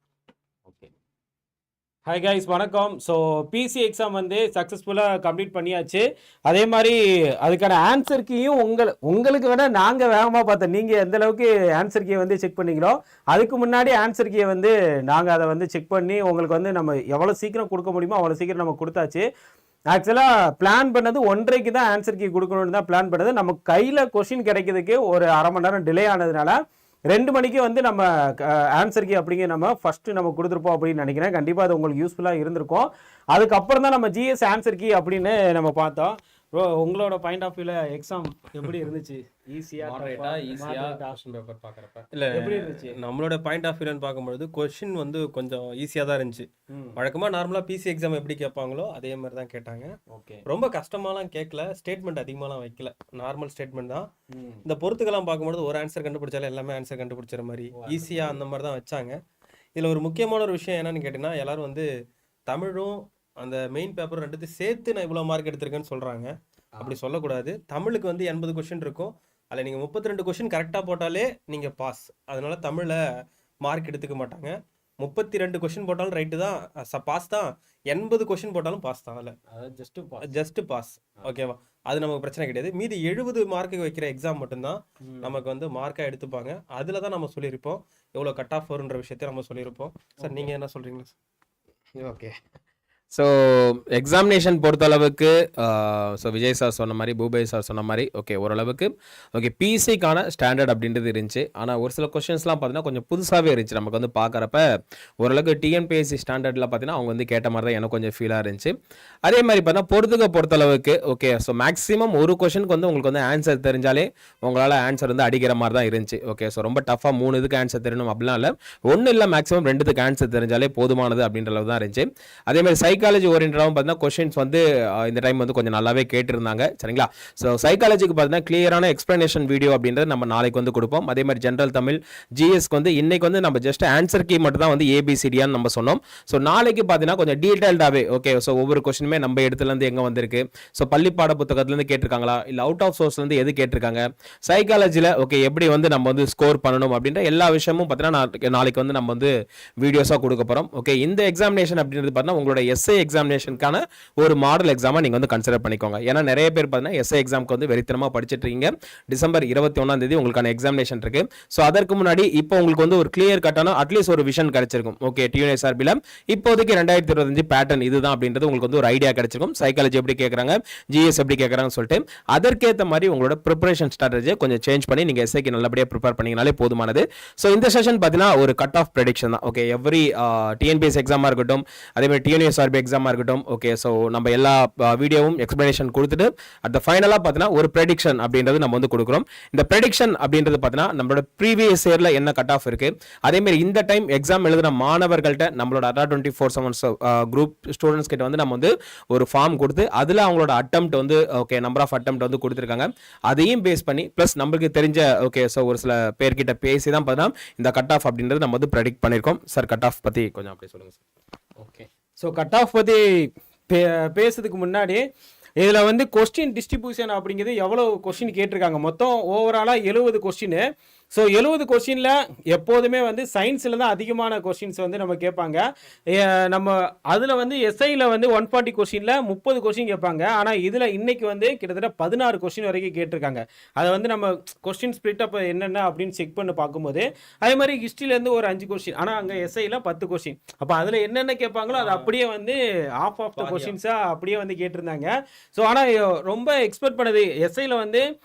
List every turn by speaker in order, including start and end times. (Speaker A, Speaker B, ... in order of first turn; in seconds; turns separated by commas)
Speaker A: 2.0-19.2, Speaker A: 19.9-26.6, Speaker A: 27.1-41.2, Speaker B: 39.8-41.0, Speaker C: 41.0-42.0, Speaker B: 42.1-49.9, Speaker A: 42.3-43.0, Speaker A: 46.7-47.0, Speaker A: 50.1-50.4, Speaker B: 50.5-54.1, Speaker A: 54.3-54.6, Speaker B: 54.6-59.1, Speaker A: 57.7-58.4, Speaker B: 59.8-61.9, Speaker B: 62.5-73.0, Speaker B: 73.6-79.3, Speaker A: 79.5-80.3, Speaker B: 80.2-91.1, Speaker A: 85.0-85.4, Speaker A: 90.2-90.5, Speaker C: 92.0-92.3, Speaker C: 93.1-104.6, Speaker C: 105.2-108.7, Speaker C: 109.2-211.0, Speaker A: 211.6-215.0, Speaker A: 215.6-248.0, Speaker B: 241.7-242.1, Speaker B: 243.4-243.7